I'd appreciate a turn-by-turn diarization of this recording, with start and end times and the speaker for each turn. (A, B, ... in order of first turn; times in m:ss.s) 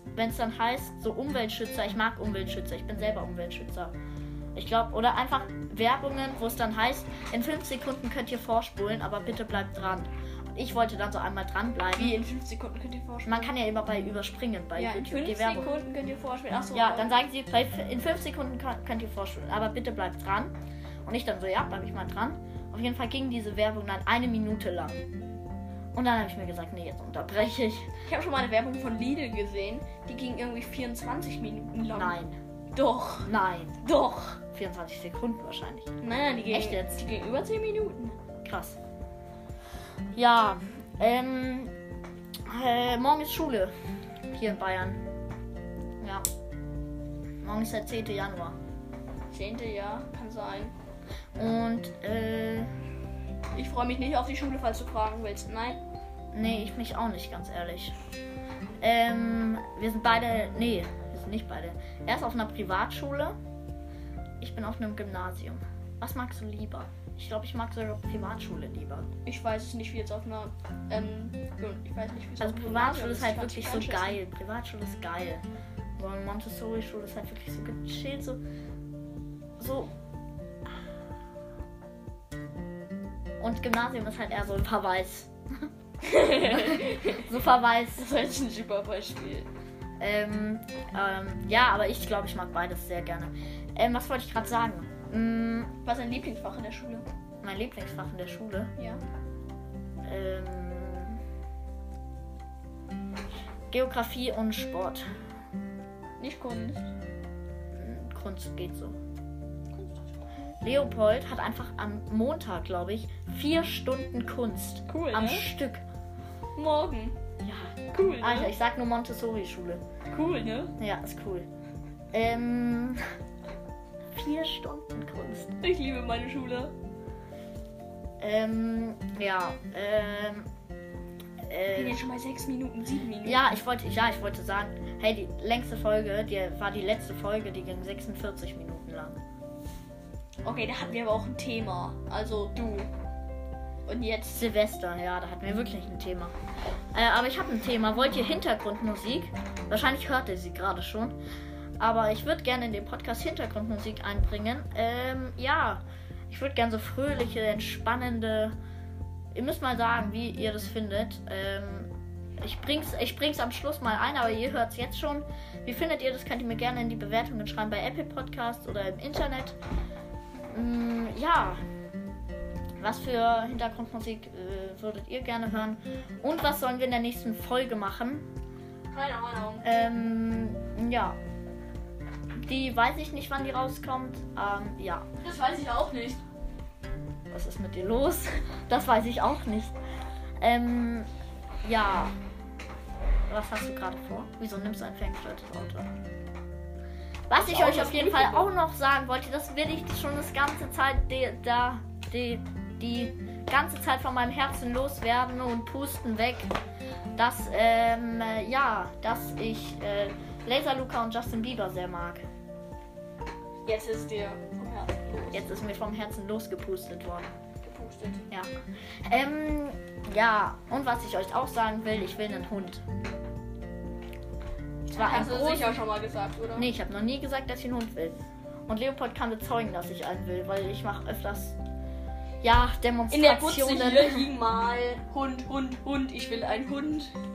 0:00.2-0:03.9 A
0:04.5-0:12.2 A
0:12.0-0:13.4 B
0:13.2-0:15.7 A
0:14.7-0:17.1 B
0:16.7-0:20.5 A
0:21.0-0:25.0 A
0:25.9-0:27.9 A
0:28.0-0:32.2 B
0:31.9-0:32.4 A
0:32.7-0:33.3 B
0:33.2-0:33.8 A
0:33.8-0:34.4 B
0:34.5-0:35.9 A
0:36.0-0:38.2 B
0:36.5-0:37.0 A
0:38.4-0:38.8 A
0:40.1-0:41.7 A
0:42.4-0:43.7 A
0:44.3-0:45.0 A
0:47.4-0:48.6 A
0:49.3-0:50.7 B
0:51.4-0:52.7 A
0:53.5-0:55.8 B
0:56.3-0:57.9 A
0:58.8-1:03.4 A
1:04.4-1:09.1 A
1:09.2-1:14.2 B
1:12.4-1:15.4 A
1:16.0-1:18.4 A
1:19.6-1:19.9 A
1:23.4-1:25.7 A
1:26.0-1:27.3 B
1:26.4-1:28.1 A
1:28.0-1:29.5 B
1:30.0-1:35.7 A
1:35.8-1:37.0 B
1:37.4-1:38.7 A
1:38.8-1:39.0 B
1:40.0-1:41.2 A
1:43.7-1:45.0 A
1:46.2-1:46.8 B
1:47.7-1:49.0 A
1:49.7-1:50.0 B
1:50.6-1:55.8 A
1:54.9-1:55.4 B
1:56.5-1:57.2 B
1:57.4-1:59.8 A
1:57.9-1:58.5 B
2:00.1-2:00.7 B
2:00.8-2:01.5 A
2:02.1-2:03.0 A
2:04.1-2:05.6 A
2:05.6-2:06.7 B
2:08.2-2:10.5 A
2:11.4-2:12.1 A
2:11.8-2:13.4 B
2:13.2-2:19.2 A
2:20.4-2:22.9 B
2:23.8-2:24.4 B
2:24.3-2:26.3 A
2:26.9-2:31.2 A
2:31.8-2:38.6 A
2:39.3-2:49.6 A
2:50.5-2:51.6 A
2:52.8-2:58.3 A
2:58.9-2:59.6 B
2:59.6-3:01.2 A
3:02.4-3:05.0 A
3:05.2-3:06.2 B
3:07.3-3:09.7 A
3:10.4-3:11.1 A
3:11.6-3:12.1 A
3:13.3-3:15.9 A
3:17.3-3:26.5 A
3:17.3-3:18.5 B
3:27.2-3:32.2 A
3:33.6-3:35.5 B
3:35.3-3:37.3 A
3:37.6-3:38.2 B
3:39.1-3:42.8 A
3:44.9-3:46.7 B
3:44.9-3:45.8 A
3:46.6-3:51.6 A
3:52.4-3:54.3 A
3:53.1-3:57.1 B